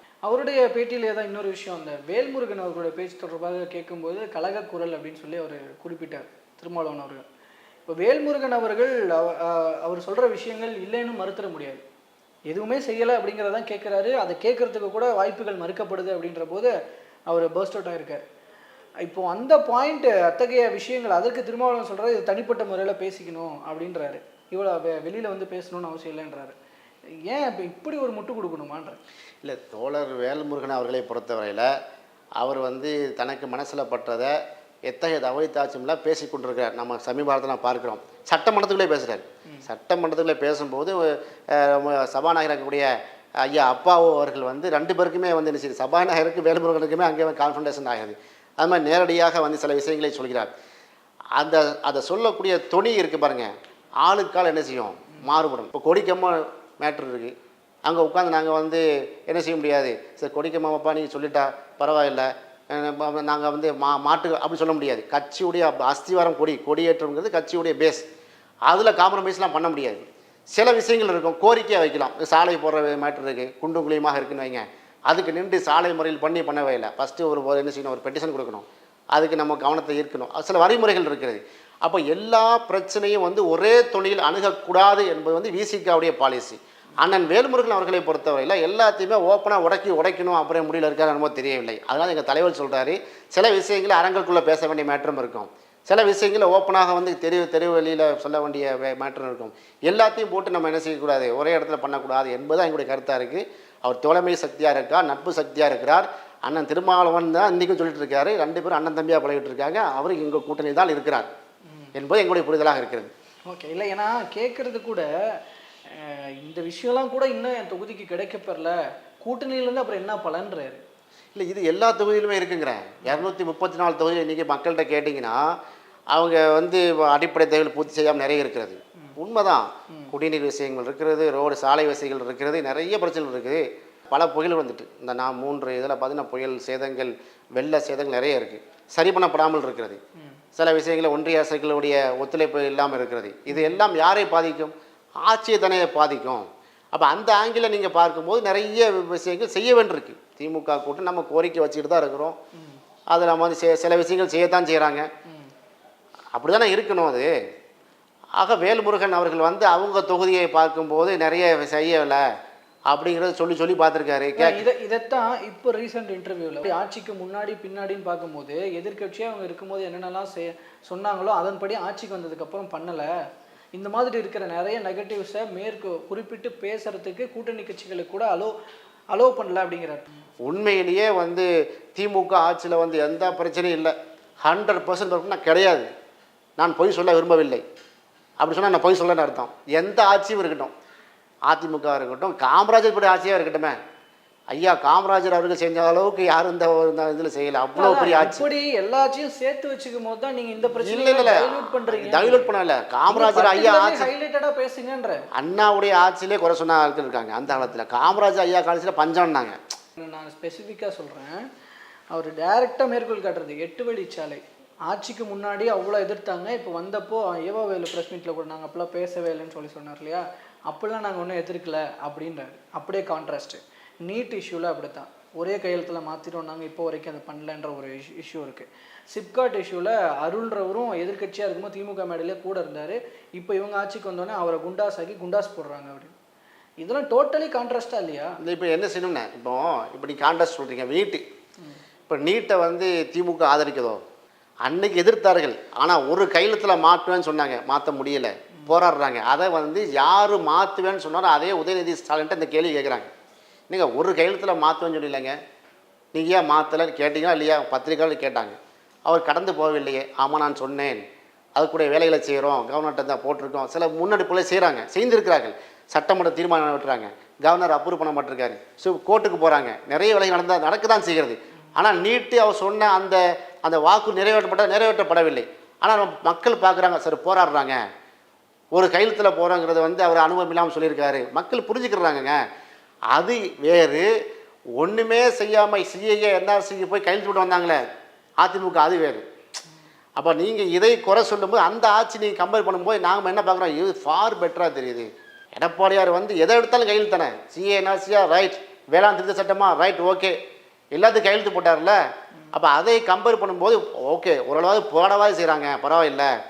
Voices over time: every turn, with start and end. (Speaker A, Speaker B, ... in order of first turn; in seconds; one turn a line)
Speaker A: 0.3-7.2
Speaker A: 7.9-11.8
Speaker A: 12.5-16.7
Speaker A: 17.3-18.2
Speaker A: 19.0-26.6
Speaker A: 27.3-29.0
Speaker B: 29.4-31.7
Speaker B: 32.4-50.5
Speaker B: 51.4-53.5
Speaker B: 54.0-57.3
Speaker B: 57.9-68.1
Speaker B: 68.7-111.3
Speaker B: 112.0-113.1
Speaker A: 113.5-115.4
Speaker A: 115.9-120.8
Speaker B: 121.3-125.4
Speaker B: 126.1-140.0
Speaker B: 140.6-152.4
Speaker A: 143.5-143.8
Speaker A: 152.6-152.8
Speaker B: 153.1-155.1
Speaker A: 155.3-155.5
Speaker B: 156.3-157.3
Speaker B: 158.4-162.2
Speaker B: 162.9-164.6
Speaker A: 164.4-173.1
Speaker A: 173.8-178.5
Speaker A: 179.1-180.1
Speaker B: 180.4-185.9
Speaker B: 186.6-187.6
Speaker B: 188.4-190.7
Speaker B: 191.5-193.8
Speaker B: 194.5-198.5
Speaker A: 197.8-202.5
Speaker B: 200.7-204.1
Speaker A: 203.1-205.2
Speaker B: 205.3-209.6
Speaker A: 210.0-211.4
Speaker A: 212.1-236.2
Speaker A: 236.8-238.4
Speaker B: 238.4-241.2
Speaker B: 242.1-244.0
Speaker B: 244.7-253.1
Speaker B: 253.7-255.4
Speaker B: 256.1-261.0
Speaker B: 261.6-277.8
Speaker B: 278.7-282.4
Speaker B: 283.1-284.1
Speaker B: 284.8-287.8
Speaker B: 288.4-289.2
Speaker B: 290.2-300.4
Speaker B: 300.9-306.3